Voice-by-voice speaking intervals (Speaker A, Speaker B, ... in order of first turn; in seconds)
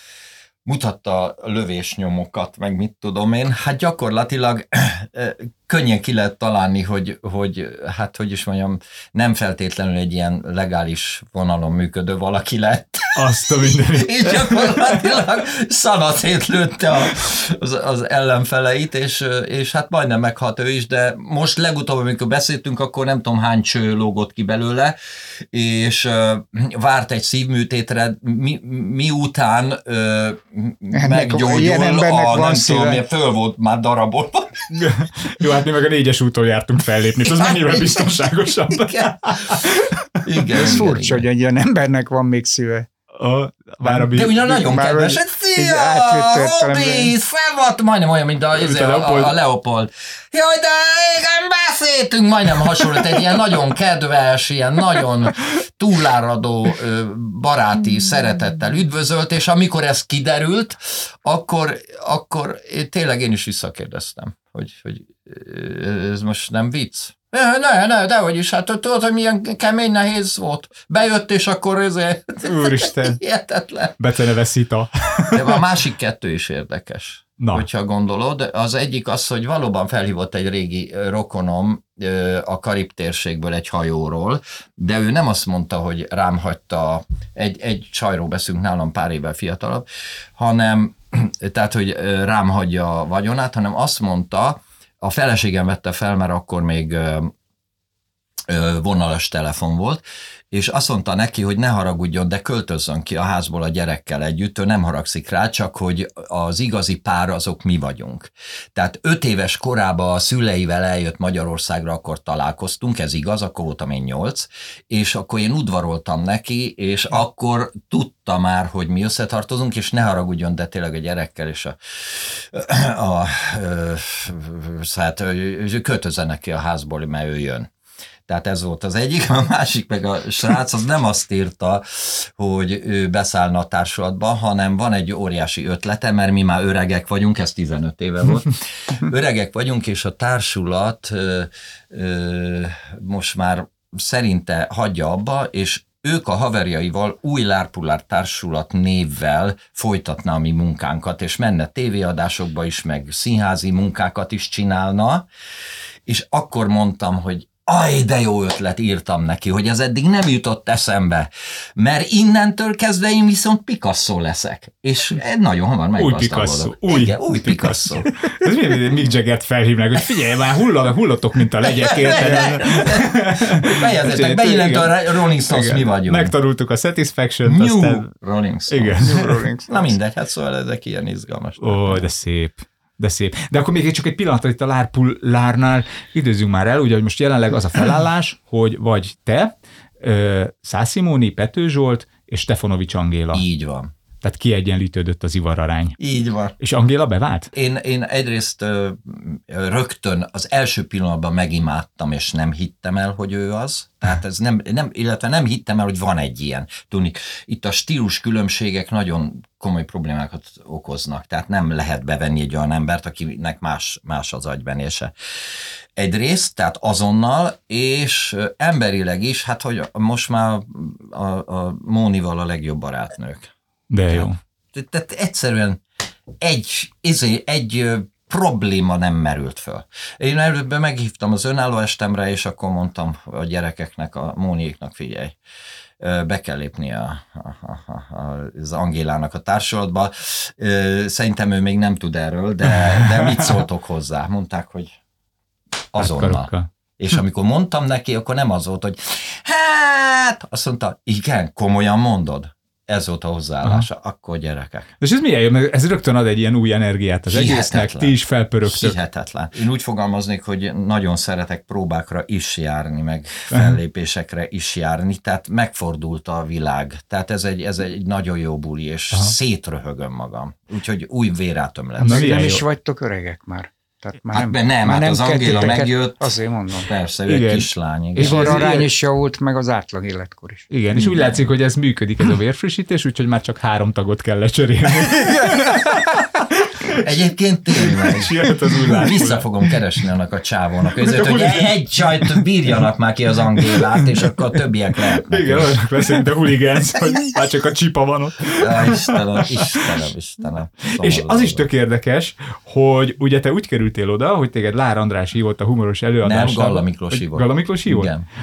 Speaker A: 0.6-13.4, 13.9-34.8, 37.3-38.1, 38.7-39.6, 40.2-41.2, 44.1-74.0, 75.3-89.8, 90.3-97.3, 98.5-127.7, 128.3-155.3, 156.1-168.1, 171.7-176.3, 177.4-182.1, 193.3-193.9, 196.0-196.6, 197.5-223.5, 224.1-225.8, 226.4-235.4, 236.0-244.9, 245.9-254.9, 257.3-272.6, 274.3-278.7, 280.9-281.4, 286.9-296.2, 298.5-301.7, 306.2-308.2
Speaker B: 13.2-15.0, 34.7-40.2, 43.2-44.5, 48.6-49.3, 72.4-73.2, 74.0-75.6, 77.4-77.7, 166.0-175.0, 175.5-178.1, 178.7-179.4, 181.6-193.4, 194.2-196.0, 196.6-197.5, 223.9-224.4, 243.0-243.5, 246.0-246.7, 255.0-259.0, 263.5-263.8, 272.0-272.6, 277.3-278.9, 280.7-287.1, 287.8-289.5, 291.0-292.4, 293.6-294.1, 295.2-299.8, 300.9-308.1
Speaker C: 30.9-33.0, 40.5-42.9, 43.8-47.1, 179.0-179.9, 272.1-276.9, 278.2-280.7, 285.2-285.5